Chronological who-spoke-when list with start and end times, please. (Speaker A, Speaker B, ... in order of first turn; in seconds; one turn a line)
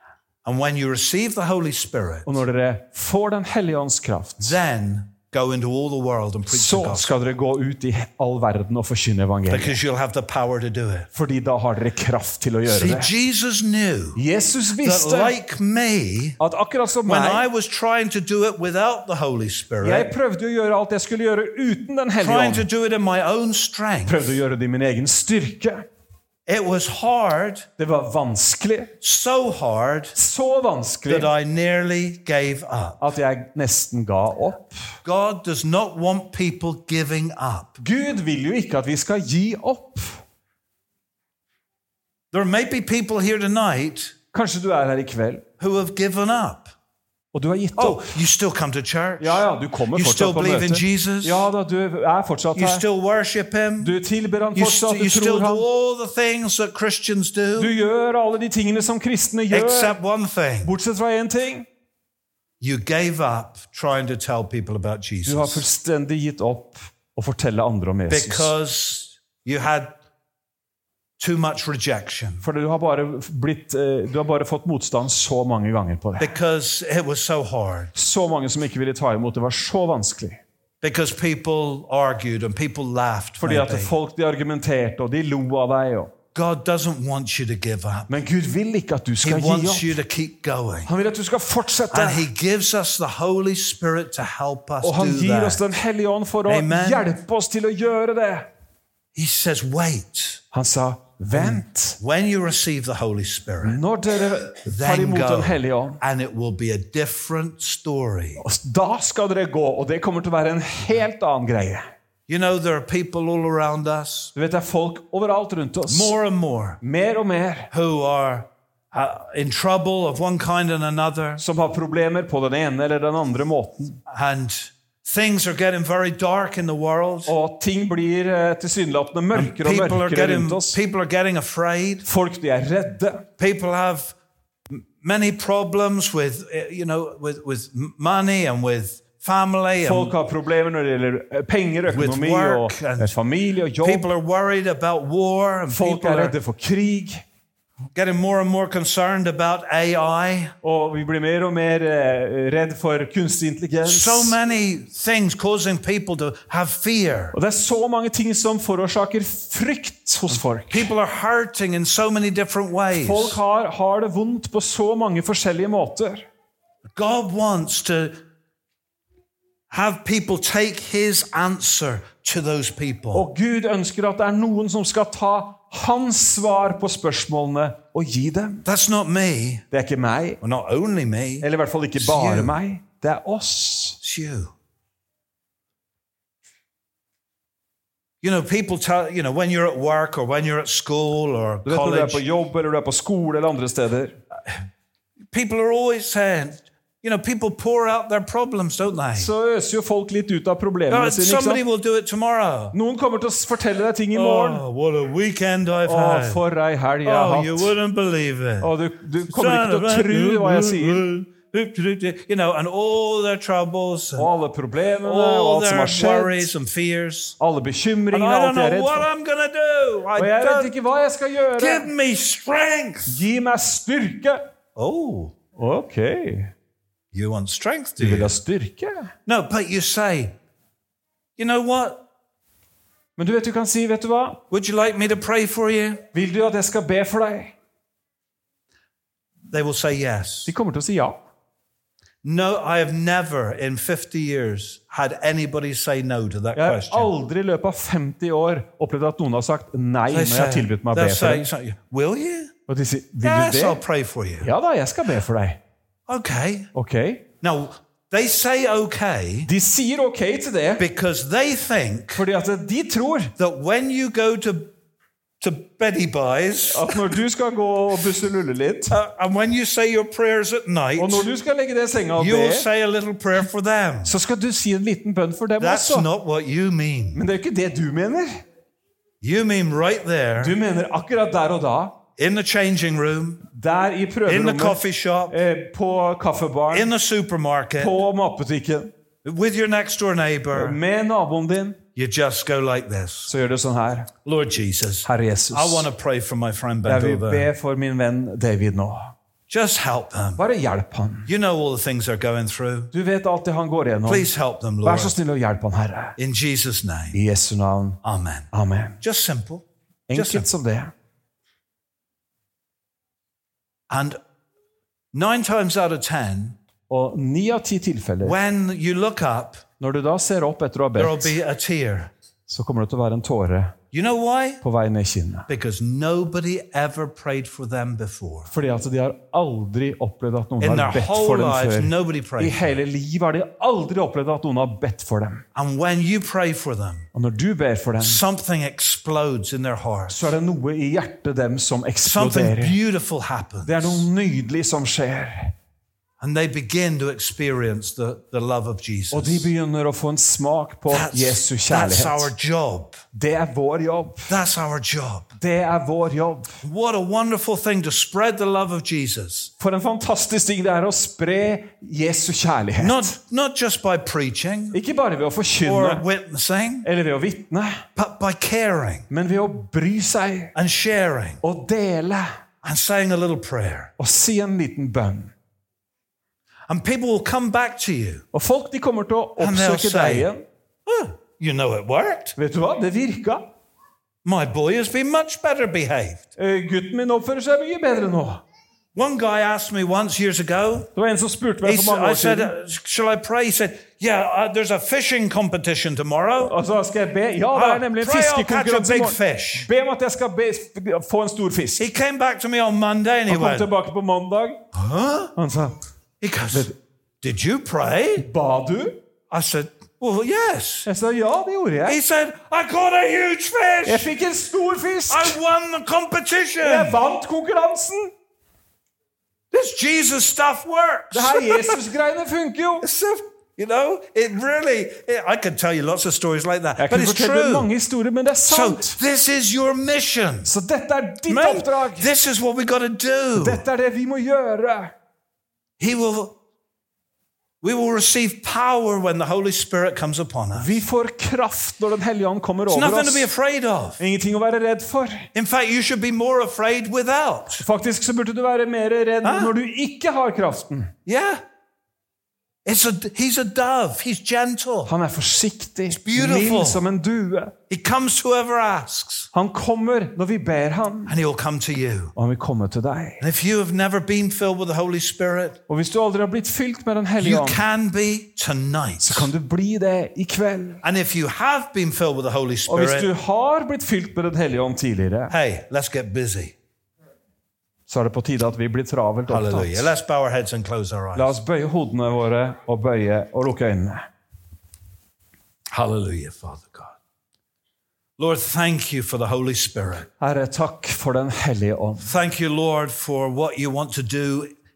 Speaker A: 0.4-2.4
Speaker B: 2.2-4.6
Speaker A: 4.4-7.1
Speaker B: 6.5-9.8
Speaker A: 9.5-11.1
Speaker B: 11.1-13.1
Speaker A: 12.7-14.2
Speaker B: 14.1-15.3
Speaker A: 14.8-16.4
Speaker B: 16.4-17.4
Speaker A: 17.1-20.1
Speaker B: 19.8-22.7
Speaker A: 22.2-24.2
Speaker B: 24.1-25.9
Speaker A: 26.5-27.7
Speaker B: 27.8-28.9
Speaker A: 29.0-30.1
Speaker B: 30.1-31.3
Speaker A: 31.1-33.0
Speaker B: 33.0-34.8
Speaker A: 35.0-37.8
Speaker B: 37.8-40.2
Speaker A: 42.3-44.1
Speaker B: 44.3-45.4
Speaker A: 45.6-46.7
Speaker B: 47.3-48.2
Speaker A: 47.8-51.5
Speaker B: 49.2-52.8
Speaker A: 52.5-53.9
Speaker B: 53.8-55.6
Speaker A: 54.5-57.7
Speaker B: 57.6-60.0
Speaker A: 59.5-60.7
Speaker B: 60.6-61.7
Speaker A: 62.6-65.6
Speaker B: 65.2-68.5
Speaker A: 68.1-69.9
Speaker A: 71.2-72.4
Speaker B: 72.4-76.3
Speaker A: 76.2-77.9
Speaker B: 77.9-80.4
Speaker A: 80.8-83.9
Speaker B: 83.4-86.1
Speaker A: 86.3-88.1
Speaker B: 88.1-90.0
Speaker A: 89.2-90.9
Speaker B: 90.8-92.3
Speaker A: 91.9-95.6
Speaker B: 94.8-98.5
Speaker A: 96.5-97.0
Speaker A: 99.1-100.4
Speaker B: 100.5-102.0
Speaker A: 101.3-103.8
Speaker B: 103.6-106.0
Speaker A: 104.7-108.4
Speaker B: 108.4-111.8
Speaker A: 112.3-114.3
Speaker B: 114.3-116.1
Speaker A: 115.9-116.8
Speaker B: 116.8-117.7
Speaker A: 117.7-121.4
Speaker B: 121.4-124.0
Speaker A: 124.1-127.3
Speaker B: 127.2-130.8
Speaker A: 129.3-132.1
Speaker B: 132.0-133.2
Speaker A: 133.4-134.1
Speaker A: 134.7-140.1
Speaker B: 139.8-144.1
Speaker A: 141.9-143.2
Speaker A: 143.8-146.3
Speaker B: 145.7-147.2
Speaker A: 147.9-150.5
Speaker B: 150.6-154.4
Speaker A: 153.8-157.3
Speaker B: 157.3-160.9
Speaker A: 160.7-163.4
Speaker B: 162.9-166.2
Speaker A: 166.9-168.2
Speaker A: 169.7-173.3
Speaker B: 173.1-178.6
Speaker A: 178.6-179.6
Speaker B: 179.7-180.4
Speaker A: 180.4-182.5
Speaker B: 181.4-184.0
Speaker A: 184.0-184.5
Speaker A: 188.2-192.2
Speaker B: 191.6-194.2
Speaker A: 195.3-199.3
Speaker B: 199.1-201.6
Speaker A: 200.9-202.8
Speaker B: 202.7-204.6
Speaker A: 204.1-206.4
Speaker B: 205.8-207.8
Speaker A: 207.0-208.7
Speaker B: 208.6-211.0
Speaker A: 209.3-214.3
Speaker B: 214.2-216.5
Speaker A: 215.0-217.3
Speaker B: 217.4-219.1
Speaker A: 218.1-220.7
Speaker B: 220.1-221.9
Speaker A: 221.6-223.2
Speaker B: 223.1-224.5
Speaker A: 224.8-225.3
Speaker B: 225.6-226.5
Speaker A: 227.1-228.4
Speaker B: 228.0-229.1
Speaker A: 229.2-230.3
Speaker A: 231.4-232.0
Speaker B: 233.2-234.4
Speaker A: 234.5-236.0
Speaker B: 236.1-237.5
Speaker A: 239.5-240.5
Speaker B: 240.5-241.2
Speaker A: 242.2-247.1
Speaker B: 246.5-251.5
Speaker A: 250.1-252.5
Speaker B: 252.7-253.8
Speaker A: 253.2-254.5
Speaker B: 254.4-255.6
Speaker A: 256.1-256.7
Speaker B: 256.7-257.2
Speaker A: 257.4-259.5
Speaker B: 259.4-260.9
Speaker A: 260.8-262.2
Speaker B: 262.1-263.3
Speaker A: 263.4-264.7
Speaker A: 265.4-267.0
Speaker B: 266.7-268.9
Speaker A: 268.9-271.3
Speaker B: 271.0-272.7
Speaker A: 272.1-274.1
Speaker B: 274.0-276.1
Speaker A: 275.6-277.2
Speaker B: 277.1-278.4
Speaker A: 279.2-280.6
Speaker B: 280.4-282.0
Speaker A: 282.2-283.4
Speaker B: 283.5-286.9
Speaker A: 284.2-285.4
Speaker A: 286.7-287.9
Speaker B: 287.8-288.9
Speaker A: 289.2-290.8
Speaker B: 290.5-291.8
Speaker A: 291.9-293.3
Speaker B: 293.3-294.1
Speaker A: 294.2-297.5
Speaker B: 295.0-295.9
Speaker B: 296.8-299.1
Speaker A: 299.5-300.4
Speaker B: 300.4-301.3
Speaker A: 301.2-302.9
Speaker B: 302.9-304.3
Speaker A: 304.1-305.2
Speaker B: 304.8-306.1
Speaker A: 306.2-307.2
Speaker B: 307.1-308.0
Speaker A: 308.0-310.5
Speaker B: 308.5-309.0
Speaker B: 310.1-310.9
Speaker A: 313.9-314.2
Speaker A: 315.1-316.6
Speaker B: 316.9-318.4
Speaker A: 318.2-319.6
Speaker B: 319.8-321.4
Speaker A: 320.9-322.1
Speaker B: 322.5-323.8
Speaker A: 323.9-324.6
Speaker B: 324.6-325.5
Speaker A: 325.5-328.5
Speaker B: 328.5-335.4
Speaker A: 330.6-332.6
Speaker A: 335.5-337.1
Speaker B: 337.1-338.2
Speaker A: 338.0-340.3
Speaker B: 340.1-342.8
Speaker A: 342.0-344.1
Speaker B: 343.6-345.5
Speaker A: 346.2-349.5
Speaker B: 349.1-352.3
Speaker A: 350.9-353.0
Speaker B: 353.1-354.3
Speaker A: 354.3-355.3
Speaker B: 355.4-356.6
Speaker A: 356.6-359.5
Speaker B: 359.6-363.1
Speaker A: 362.8-364.8
Speaker B: 364.7-366.0
Speaker A: 365.6-366.9
Speaker B: 366.8-367.8
Speaker A: 367.9-369.1
Speaker B: 369.1-370.5
Speaker A: 370.5-371.4
Speaker B: 371.4-372.3
Speaker A: 372.6-373.9
Speaker B: 374.0-375.3
Speaker A: 376.7-378.2
Speaker B: 378.3-380.4
Speaker A: 379.4-380.3
Speaker A: 380.9-382.4
Speaker B: 382.4-383.5
Speaker A: 384.2-386.3
Speaker B: 386.4-388.4
Speaker A: 388.9-390.9
Speaker B: 390.9-392.5
Speaker A: 391.6-396.5
Speaker B: 396.4-401.9
Speaker A: 397.5-399.7
Speaker A: 401.8-403.7
Speaker B: 403.3-404.6
Speaker A: 404.7-405.3
Speaker B: 405.4-405.8
Speaker A: 406.2-408.3
Speaker B: 408.2-409.0
Speaker A: 409.3-410.9
Speaker B: 410.9-412.0
Speaker A: 411.9-414.1
Speaker B: 413.8-415.4
Speaker A: 415.1-417.0
Speaker B: 416.6-418.1
Speaker A: 419.5-421.8
Speaker B: 421.1-422.9
Speaker A: 422.8-427.7
Speaker B: 426.8-429.0
Speaker A: 428.5-430.5
Speaker B: 430.4-432.1
Speaker A: 431.3-433.6
Speaker B: 433.4-434.9
Speaker A: 435.8-436.4
Speaker A: 437.6-440.8
Speaker B: 440.5-443.3
Speaker A: 442.7-444.0
Speaker B: 444.0-445.3
Speaker A: 445.3-447.6
Speaker B: 447.6-450.9
Speaker A: 449.2-449.5
Speaker A: 451.1-451.4
Speaker A: 452.6-454.9
Speaker B: 454.9-457.5
Speaker A: 455.9-456.8
Speaker A: 457.7-459.3
Speaker B: 459.3-461.1
Speaker A: 461.1-462.1
Speaker B: 462.1-463.2
Speaker A: 463.2-465.6
Speaker B: 465.7-467.6
Speaker A: 467.2-469.3
Speaker B: 469.0-470.8
Speaker A: 470.8-473.1
Speaker B: 472.7-475.3
Speaker A: 475.3-476.5
Speaker B: 477.9-479.9
Speaker A: 479.3-481.4
Speaker B: 481.1-484.1
Speaker A: 485.7-486.9
Speaker A: 488.2-490.1
Speaker B: 490.2-492.1
Speaker A: 492.0-494.5